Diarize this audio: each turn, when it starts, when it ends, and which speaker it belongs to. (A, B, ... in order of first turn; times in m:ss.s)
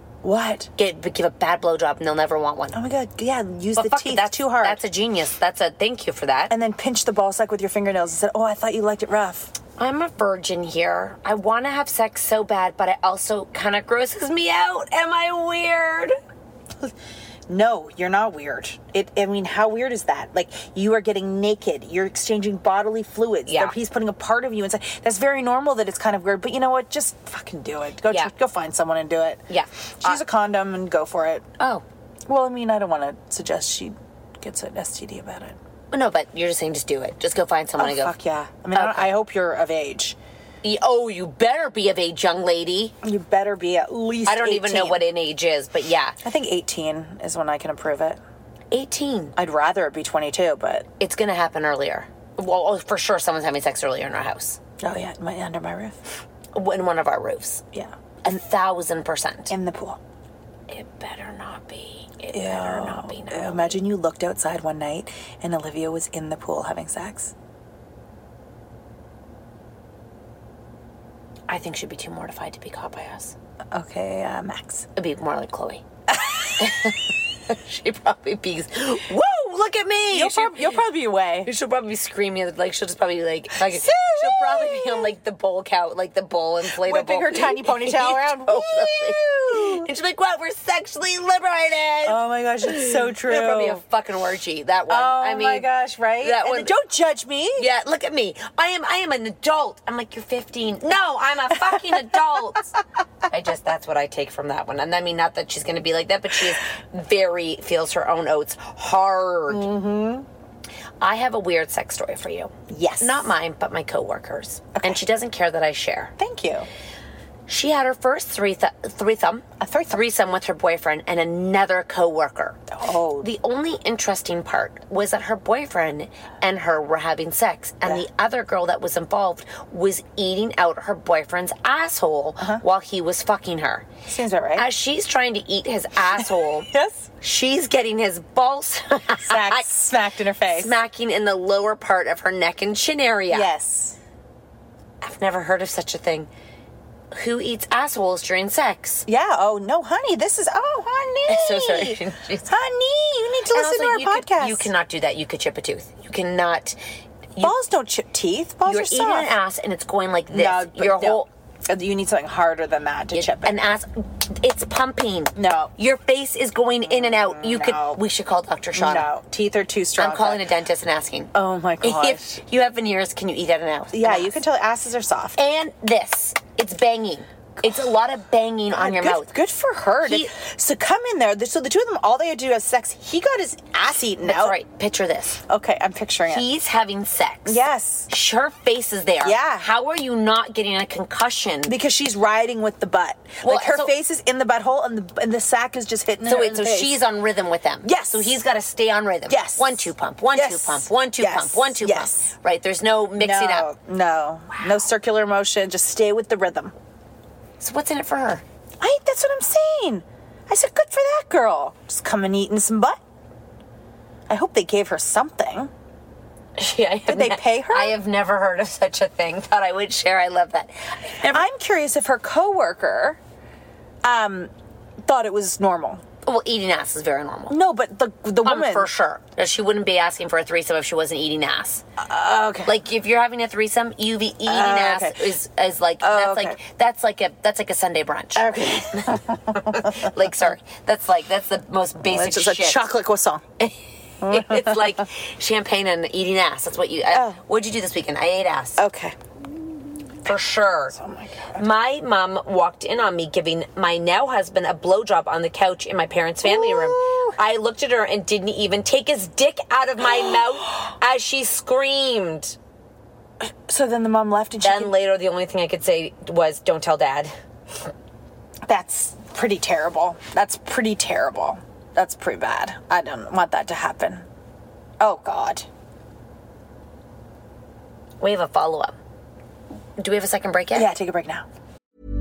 0:00.2-0:00.7 A
0:00.8-0:02.8 B
0:02.7-0:04.8 A
0:03.8-0:06.5 B
0:06.5-0:09.5 A
0:09.8-0:16.1 B
0:17.5-0:29.4 A
0:23.5-0:23.7 B
0:29.5-0:30.2 B
0:30.0-0:31.4 A
0:31.6-0:31.8 B
0:32.3-0:35.6 A
0:35.9-0:38.1 B
0:37.8-0:40.2 A
0:38.7-0:39.1 B
0:40.6-0:42.9 B
0:43.0-0:45.0 A
0:44.2-0:46.2 B
0:46.2-0:48.2 A
0:48.7-0:49.4 B
0:49.4-0:50.8 A
0:51.0-0:54.6 B
0:54.8-0:56.0 A
0:56.5-0:57.6 B
0:58.2-0:59.5 B
0:59.5-1:00.0 A
1:00.7-1:03.8 B
1:02.3-1:07.3 A
1:11.5-1:13.3 B
1:13.7-1:14.8 A
1:15.0-1:15.8 B
1:16.1-1:16.5 A
1:16.6-1:20.8 B
1:20.1-1:21.5 A
1:21.4-1:35.7 B
1:23.6-1:25.1 A
1:26.7-1:29.9 A
1:32.0-1:33.8 A
1:34.9-1:37.7 A
1:36.2-1:36.7 B
1:37.6-1:42.7 B
1:43.3-1:49.7 B
1:49.5-1:50.2 A
1:51.0-1:56.1 B
1:52.7-1:53.2 A
1:56.2-1:56.7 A
1:57.5-2:02.6 B
1:59.6-2:00.0 A
2:02.7-2:03.3 A
2:03.2-2:13.8 B
2:14.0-2:14.7 A
2:14.6-2:16.7 B
2:16.2-2:17.1 A
2:17.2-2:19.7 B
2:19.2-2:20.7 A
2:20.5-2:23.5 B
2:23.3-2:24.0 A
2:25.0-2:26.3 B
2:27.1-2:29.0 B
2:29.1-2:34.7 A
2:31.3-2:32.5 B
2:33.5-2:36.8 B
2:37.4-2:39.3 A
2:38.6-2:41.3 B
2:40.3-2:43.6 A
2:43.1-2:49.1 B
2:45.4-2:45.7 A
2:46.9-2:48.0 A
2:48.7-2:50.4 A
2:50.0-2:54.4 B
2:51.3-2:52.3 A
2:53.9-2:55.4 A
2:55.4-2:59.3 B
2:58.8-3:04.6 A
3:00.0-3:00.3 B
3:04.2-3:05.4 B
3:05.5-3:06.4 A
3:06.3-3:11.7 B
3:07.5-3:08.1 A
3:09.2-3:09.7 A
3:11.7-3:17.0 A
3:13.4-3:13.9 B
3:16.2-3:23.7 B
3:17.8-3:18.4 A
3:19.3-3:22.3 A
3:23.2-3:26.7 A
3:27.6-3:28.4 B
3:28.8-3:33.0 A
3:34.3-3:35.7 A
3:36.6-3:41.5 B
3:37.1-3:38.0 A
3:41.2-3:43.2 A
3:44.0-3:44.5 A
3:45.0-3:46.0 A
3:46.2-3:47.6 B
3:47.5-3:48.9 A
3:48.4-3:51.8 B
3:52.0-3:52.7 A
3:52.6-4:02.8 B
3:54.4-3:55.3 A
3:56.0-3:56.6 A
3:58.4-4:00.1 A
4:02.0-4:03.4 A
4:04.2-4:05.0 A
4:04.3-4:08.8 B
4:07.1-4:07.4 A
4:08.8-4:09.1 A
4:10.2-4:10.9 B
4:10.9-4:11.6 A
4:11.6-4:22.6 B
4:16.4-4:17.4 A
4:20.1-4:20.8 A
4:23.4-4:25.0 A
4:24.6-4:27.3 B
4:28.6-4:34.2 A
4:35.0-4:35.7 A
4:38.2-4:39.0 B
4:40.0-4:40.9 B
4:40.7-4:41.4 A